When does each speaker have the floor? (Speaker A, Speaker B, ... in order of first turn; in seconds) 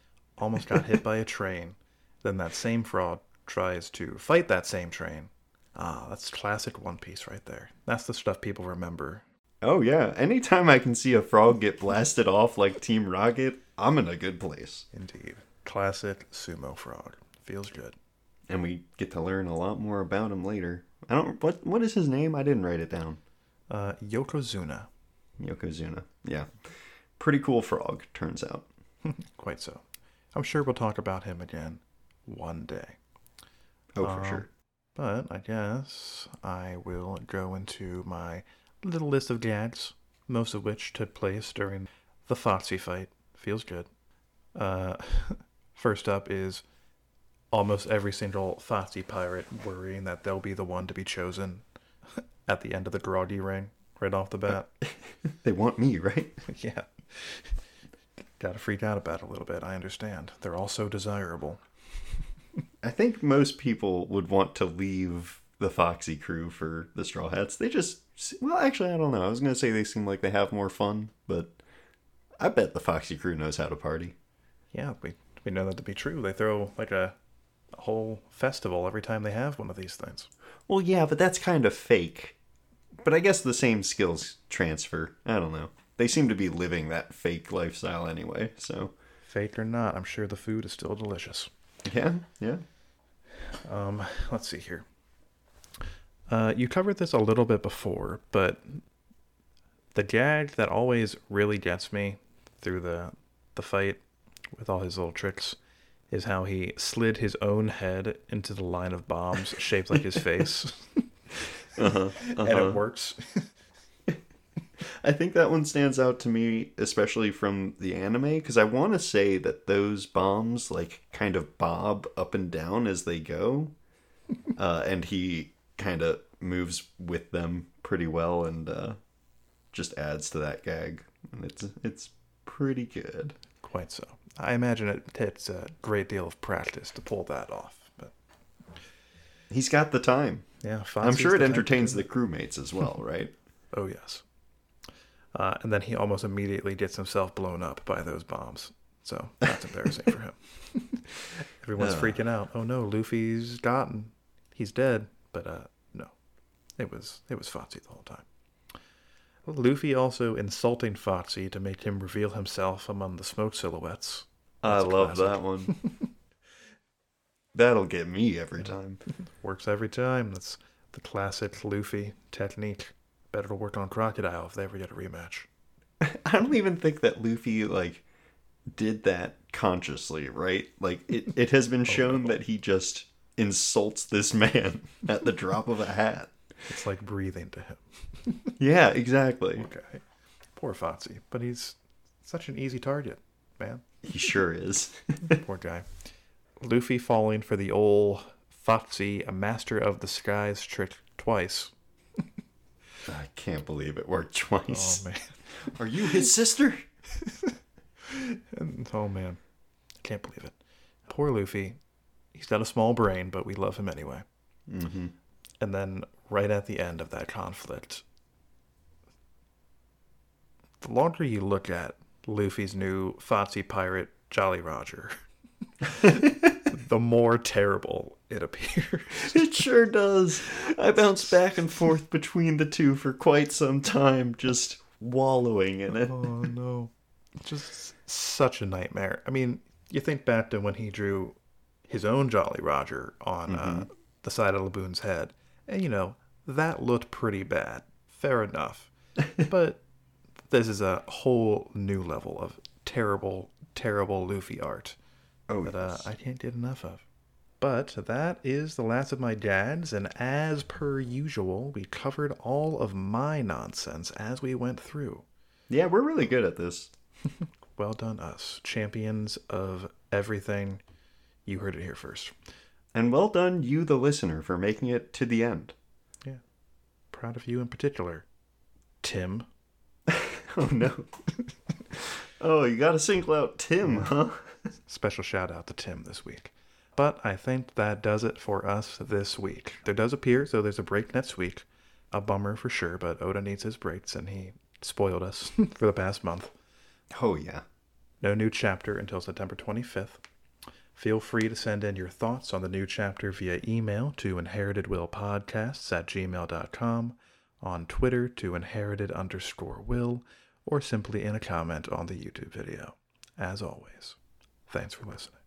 Speaker A: 0.4-9.2, 14.9-18.0, 23.7-24.9, 29.1-33.0, 34.0-43.9, 44.5-46.6, 47.5-51.6, 52.2-54.7, 56.5-57.6, 58.4-61.6, 74.7-77.2, 77.7-80.3, 89.2-91.5, 93.6-94.8, 96.3-98.8, 100.0-105.6, 106.1-111.6, 112.2-113.5, 133.6-138.1, 140.6-142.1, 143.7-144.2, 145.3-156.1, 156.8-158.3, 159.5-166.1, 169.1-175.5, 181.9-182.4, 186.7-188.5, 189.6-190.0, 190.6-193.9, 195.2-195.9, 196.6-201.7, 204.7-206.2, 207.2-209.4, 210.0-211.8, 212.3-214.2, 215.6-218.0, 220.8-225.2, 225.8-229.6, 230.5-231.3, 236.1-241.4, 241.9-249.8, 250.5-255.0, 255.7-257.0, 257.6-265.2, 267.4-270.8, 271.5-272.3, 277.1-278.3, 279.0-279.5, 284.9-296.5, 298.2-300.2, 300.9-314.2, 314.7-315.4
Speaker B: 9.6-14.9, 18.5-23.2, 25.4-28.7, 34.0-34.5, 54.8-56.4, 62.8-71.6, 72.4-74.2, 80.7-82.4, 83.0-88.9, 91.8-92.6, 111.8-112.8, 114.8-123.7, 124.5-129.0, 129.7-133.4, 139.5-140.4, 141.0-143.3, 151.8-152.2, 164.6-165.7, 167.5-169.0, 176.0-178.0, 178.7-186.3, 188.6-189.7, 194.0-195.4, 203.1-205.0, 205.6-206.8, 214.7-215.1, 229.2-236.2, 243.5-243.9, 255.5-256.0, 265.7-266.9, 272.9-275.8, 280.1-281.1, 281.9-284.5, 297.1-297.6